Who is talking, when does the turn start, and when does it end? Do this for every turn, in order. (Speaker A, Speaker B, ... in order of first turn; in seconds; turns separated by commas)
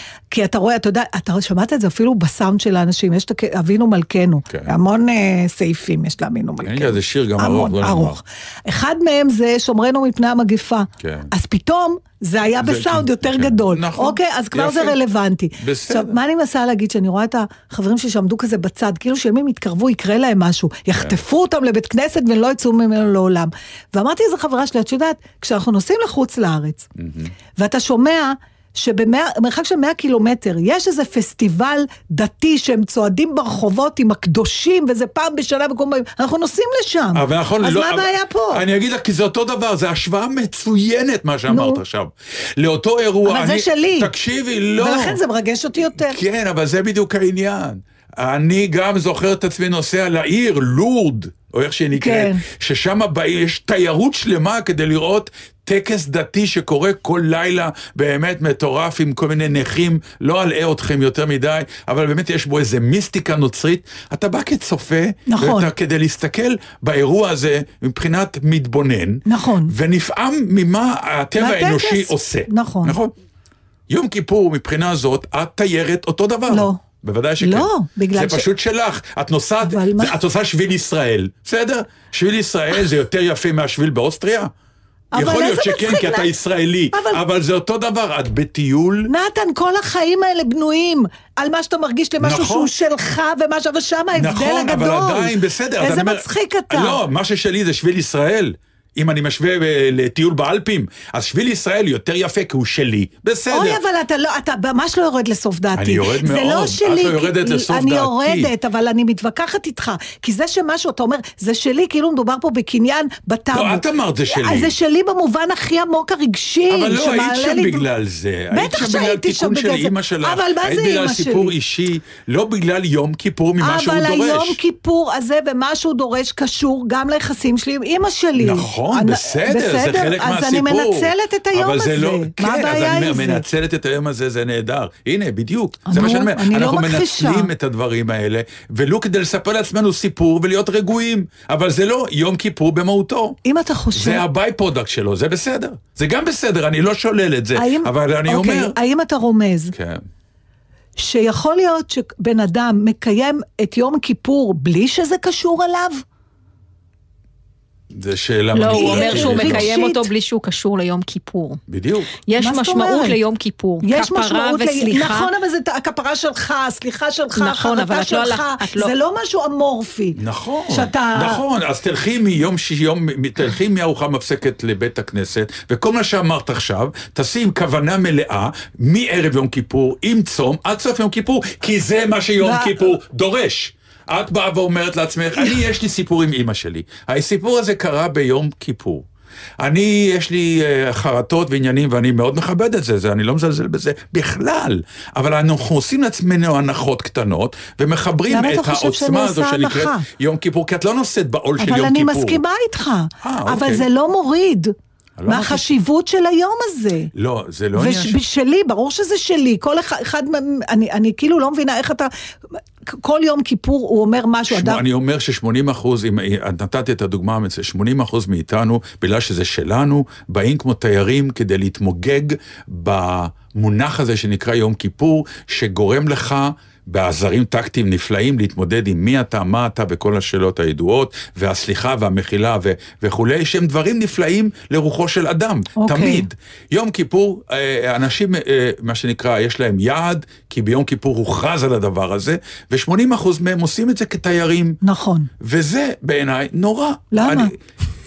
Speaker A: 0.3-26.9, Speaker B: 4.5-4.7, Speaker B: 6.6-8.2, Speaker B: 11.0-11.3, Speaker B: 12.6-15.0, Speaker B: 15.6-16.1, Speaker B: 20.9-21.2, Speaker B: 27.0-27.3, Speaker A: 27.6-38.6, Speaker B: 37.1-45.2, Speaker A: 41.5-41.8, Speaker A: 43.2-44.1, Speaker A: 44.8-46.2, Speaker B: 45.9-73.1, Speaker A: 51.9-52.4, Speaker A: 65.3-65.7, Speaker A: 69.2-69.7, Speaker A: 71.4-73.0, Speaker B: 73.9-84.5, Speaker A: 76.5-76.8, Speaker A: 77.4-78.5, Speaker A: 79.6-80.2, Speaker A: 85.1-86.3, Speaker B: 85.1-89.1, Speaker A: 86.9-87.2, Speaker A: 89.1-97.0, Speaker B: 92.2-92.7, Speaker B: 94.1-103.8, Speaker A: 103.5-117.8, Speaker B: 105.7-108.5, Speaker B: 113.5-114.7, Speaker B: 116.7-124.6, Speaker A: 118.5-121.5, Speaker A: 123.6-133.4, Speaker B: 128.4-143.4, Speaker A: 135.9-137.5, Speaker A: 143.4-144.2, Speaker B: 143.9-148.8, Speaker A: 147.5-149.7, Speaker B: 149.7-150.0, Speaker A: 151.0-156.0, Speaker B: 157.9-159.7, Speaker C: 158.5-161.6, Speaker A: 158.7-160.1, Speaker B: 161.7-162.1, Speaker C: 162.2-165.3, Speaker A: 162.4-163.2, Speaker A: 163.8-170.2, Speaker C: 167.3-168.9, Speaker B: 170.2-189.1, Speaker A: 170.7-171.4, Speaker A: 182.4-182.9, Speaker B: 189.6-202.4, Speaker A: 198.3-200.1, Speaker A: 201.6-204.7, Speaker B: 203.2-203.8, Speaker B: 205.2-205.8, Speaker A: 205.2-207.1, Speaker B: 207.1-208.2, Speaker A: 207.8-212.1, Speaker A: 212.9-214.8, Speaker B: 214.5-244.8, Speaker A: 235.8-236.3, Speaker A: 244.8-245.3, Speaker B: 245.4-247.5, Speaker A: 247.1-247.5